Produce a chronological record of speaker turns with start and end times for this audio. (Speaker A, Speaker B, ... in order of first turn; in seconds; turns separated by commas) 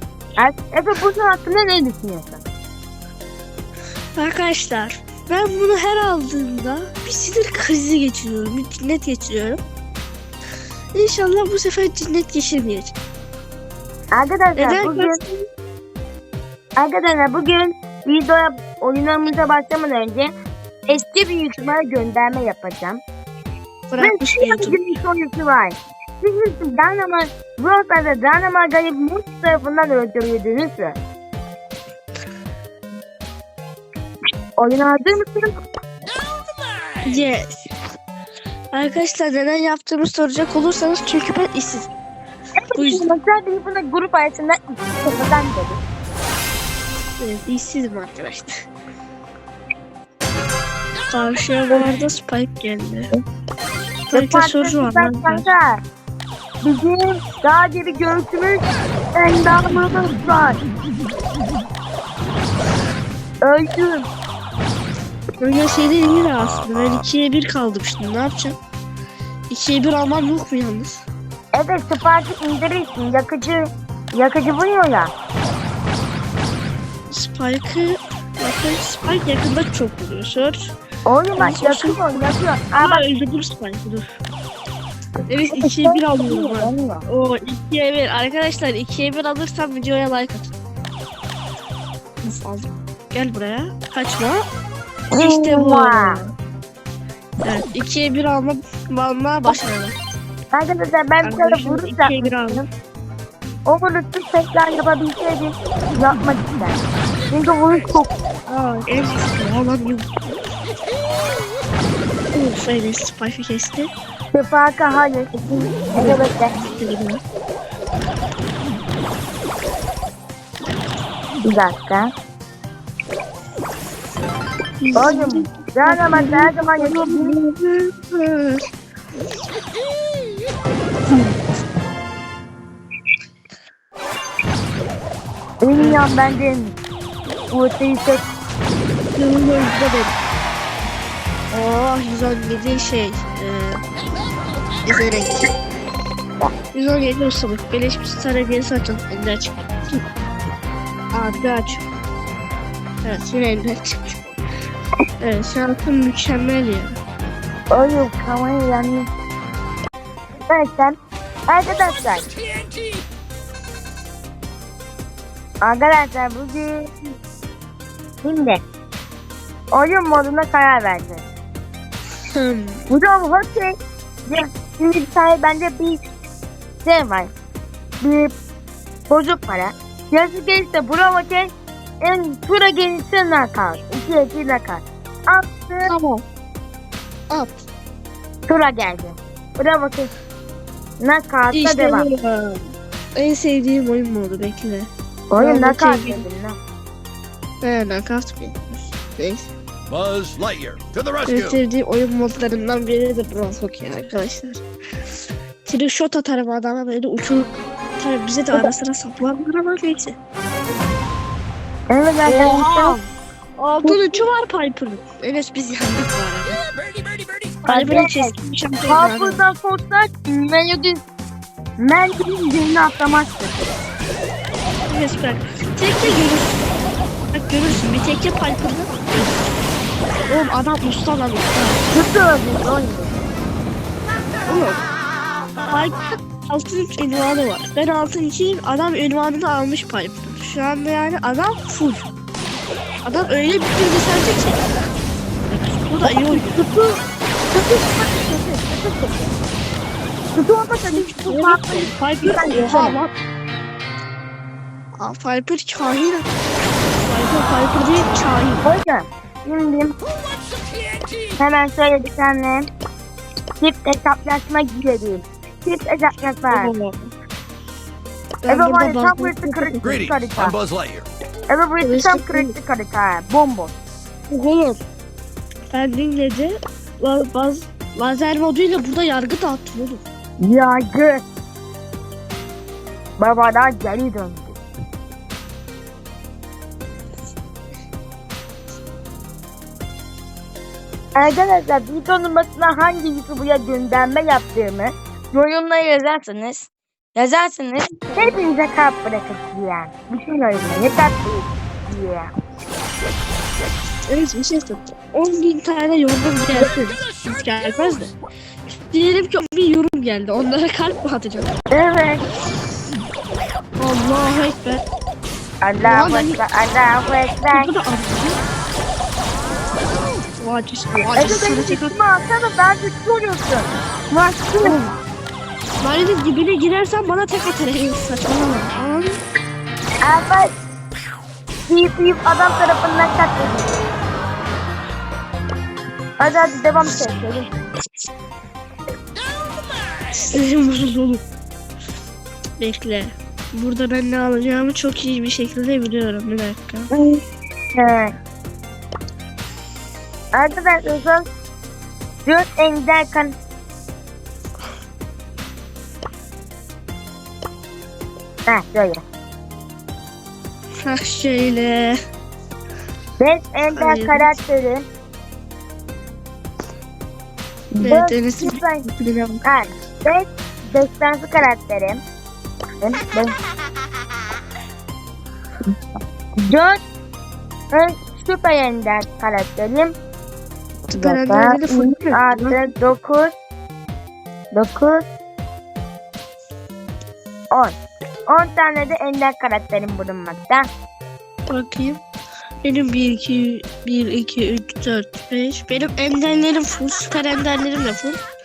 Speaker A: 0.4-2.4, Speaker B: 4.2-9.6, Speaker B: 10.9-12.9, Speaker A: 14.1-15.2, Speaker B: 14.6-15.4, Speaker A: 16.8-20.3, Speaker A: 20.9-23.0, Speaker B: 23.9-24.8, Speaker A: 24.0-31.0, Speaker A: 34.6-35.5, Speaker B: 37.0-37.6, Speaker B: 38.7-41.9, Speaker A: 42.6-45.8, Speaker B: 42.7-43.0, Speaker B: 47.2-48.5, Speaker B: 51.1-53.1, Speaker B: 54.1-55.5, Speaker A: 54.1-55.8, Speaker A: 56.6-58.6, Speaker A: 59.1-60.6, Speaker A: 63.4-64.1, Speaker B: 65.4-68.6, Speaker B: 69.5-71.0, Speaker A: 71.5-75.1, Speaker B: 77.1-80.7, Speaker A: 81.0-83.0, Speaker B: 81.4-82.2, Speaker B: 82.8-84.0, Speaker B: 85.3-90.5, Speaker A: 85.5-87.0, Speaker B: 92.2-94.4, Speaker A: 95.1-96.2, Speaker B: 95.2-96.3, Speaker B: 97.4-99.9, Speaker A: 100.5-102.6, Speaker B: 101.2-102.6, Speaker A: 103.7-108.2, Speaker B: 108.5-110.3, Speaker B: 112.3-113.9, Speaker A: 114.3-116.5, Speaker B: 116.0-117.2, Speaker A: 121.4-122.1, Speaker B: 124.8-128.6, Speaker A: 125.0-127.3, Speaker A: 135.6-136.7, Speaker B: 135.8-136.0, Speaker A: 137.5-138.2, Speaker B: 139.1-140.1, Speaker B: 141.5-143.8, Speaker B: 144.8-145.5, Speaker B: 146.7-150.0, Speaker B: 151.1-151.8, Speaker B: 153.0-154.3, Speaker B: 155.2-157.0, Speaker A: 157.7-159.1, Speaker A: 160.5-160.9, Speaker A: 161.5-162.3, Speaker A: 165.6-166.9, Speaker A: 168.2-168.6, Speaker A: 169.7-171.2, Speaker B: 172.3-172.9, Speaker A: 172.9-173.7, Speaker A: 174.3-176.0, Speaker A: 176.8-177.3, Speaker A: 178.0-178.3, Speaker A: 179.1-181.5, Speaker A: 182.0-185.9, Speaker B: 185.8-186.2, Speaker B: 187.3-187.6, Speaker A: 188.5-190.1, Speaker A: 191.0-192.1, Speaker B: 191.5-192.6, Speaker B: 193.2-196.2, Speaker A: 195.3-196.6, Speaker B: 197.6-199.5, Speaker C: 199.9-201.3, Speaker B: 201.3-204.6, Speaker B: 205.6-210.2, Speaker A: 211.9-213.0, Speaker B: 212.2-213.1, Speaker B: 213.6-216.6, Speaker A: 213.8-214.2, Speaker A: 217.6-218.3, Speaker B: 217.7-219.4, Speaker A: 218.9-221.0, Speaker A: 221.8-223.7, Speaker B: 224.9-226.6, Speaker B: 227.3-229.3, Speaker B: 230.3-231.8, Speaker A: 231.9-233.1, Speaker B: 234.5-234.8, Speaker B: 235.7-242.1, Speaker B: 243.0-244.6, Speaker B: 245.5-246.7, Speaker A: 246.0-247.0, Speaker A: 247.5-249.3, Speaker A: 250.3-253.0, Speaker B: 250.9-253.1, Speaker B: 255.0-256.2, Speaker B: 257.0-258.6, Speaker A: 258.6-260.0, Speaker A: 261.4-262.7, Speaker A: 263.6-266.7, Speaker B: 266.5-267.1, Speaker B: 268.4-269.9, Speaker A: 268.5-270.5, Speaker C: 270.4-271.1, Speaker A: 271.5-273.7, Speaker B: 271.8-272.5, Speaker B: 274.3-274.8, Speaker B: 275.7-280.0, Speaker A: 280.4-281.2, Speaker A: 283.2-284.6, Speaker A: 291.2-302.3, Speaker B: 298.0-298.4, Speaker B: 304.1-308.1, Speaker B: 308.8-311.5, Speaker A: 311.7-312.2, Speaker B: 313.8-314.8, Speaker A: 315.6-317.7, Speaker B: 315.8-316.4, Speaker B: 317.5-318.4, Speaker B: 320.4-321.9, Speaker A: 321.1-324.8, Speaker B: 324.6-325.0, Speaker B: 325.8-329.2, Speaker A: 330.0-330.5, Speaker A: 331.7-333.7, Speaker A: 336.2-337.5, Speaker B: 340.1-341.2, Speaker B: 342.6-346.9, Speaker A: 346.9-347.2, Speaker A: 347.8-348.1, Speaker A: 350.3-351.2, Speaker A: 352.2-353.3, Speaker A: 358.5-359.0, Speaker B: 360.8-361.9, Speaker A: 363.2-364.8, Speaker B: 363.7-364.3, Speaker A: 367.7-368.9, Speaker B: 367.8-369.4, Speaker A: 369.4-372.0, Speaker A: 372.8-373.3, Speaker A: 376.4-376.8, Speaker A: 377.7-379.9, Speaker B: 380.9-382.7, Speaker A: 381.0-383.3, Speaker A: 384.5-385.1, Speaker A: 388.3-390.6, Speaker B: 391.5-392.0, Speaker B: 392.6-398.2